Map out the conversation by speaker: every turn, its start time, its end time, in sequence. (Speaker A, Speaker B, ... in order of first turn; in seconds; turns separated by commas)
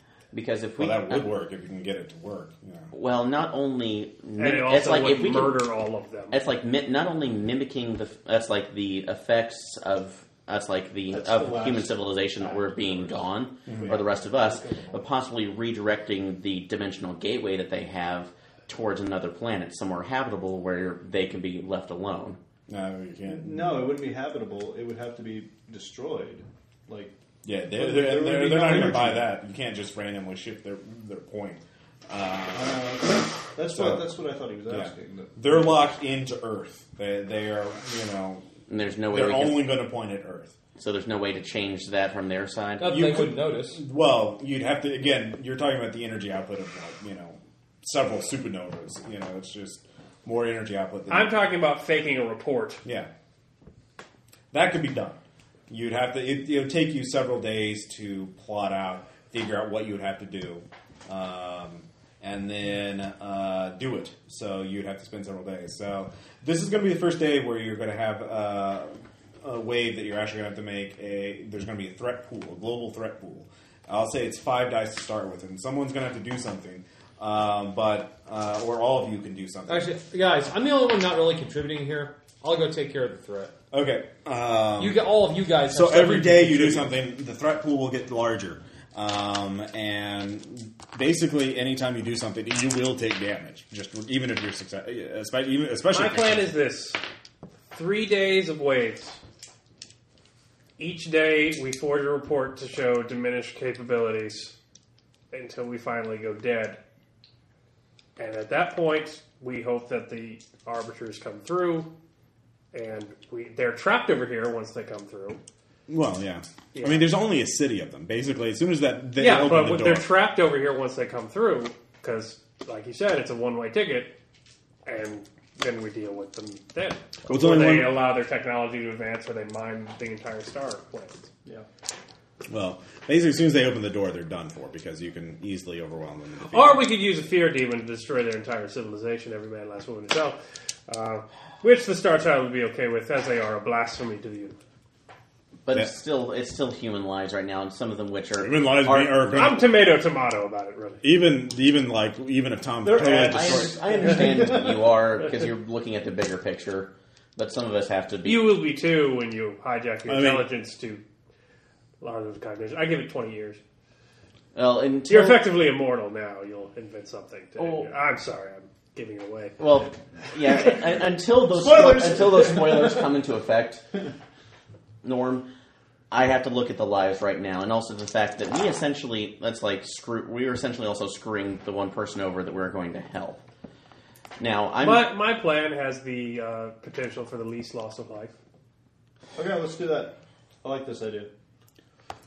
Speaker A: 0.3-1.3, Speaker B: 0.8-2.9, Speaker A: 2.9-5.7, Speaker C: 4.4-6.4, Speaker A: 6.3-22.4, Speaker D: 11.1-15.1, Speaker B: 13.7-14.0, Speaker B: 22.7-23.9, Speaker D: 23.3-27.1, Speaker B: 27.4-33.0, Speaker D: 27.7-29.3, Speaker D: 32.5-35.9, Speaker B: 33.7-34.1, Speaker B: 34.7-38.5, Speaker A: 38.7-39.8, Speaker B: 39.1-40.5, Speaker A: 40.8-43.0, Speaker E: 42.8-43.8, Speaker B: 42.8-51.3, Speaker C: 51.1-52.8, Speaker B: 52.9-53.1, Speaker B: 54.5-68.9, Speaker B: 69.4-79.9, Speaker E: 79.7-83.5, Speaker B: 83.7-85.1, Speaker E: 84.8-86.9, Speaker B: 85.7-96.6, Speaker C: 95.9-97.0, Speaker C: 97.7-99.2, Speaker C: 100.8-104.6, Speaker C: 105.3-106.8, Speaker C: 108.2-111.9, Speaker C: 112.7-115.4, Speaker B: 115.9-120.1, Speaker C: 116.7-117.1, Speaker C: 119.2-124.1, Speaker C: 124.8-131.3, Speaker B: 127.3-128.1, Speaker B: 132.5-136.9, Speaker C: 136.4-144.6, Speaker A: 145.6-149.6, Speaker B: 148.4-149.6, Speaker C: 149.3-151.0, Speaker B: 151.0-153.8, Speaker D: 152.8-155.0, Speaker A: 152.9-158.6, Speaker C: 158.2-161.0, Speaker B: 160.1-160.5, Speaker C: 162.0-163.6, Speaker A: 164.5-165.4, Speaker C: 165.1-169.6, Speaker A: 167.6-167.9, Speaker A: 169.6-173.8, Speaker D: 171.4-173.0, Speaker A: 175.0-175.5, Speaker A: 176.1-183.4, Speaker A: 184.4-185.2, Speaker C: 184.8-188.3, Speaker D: 189.4-191.3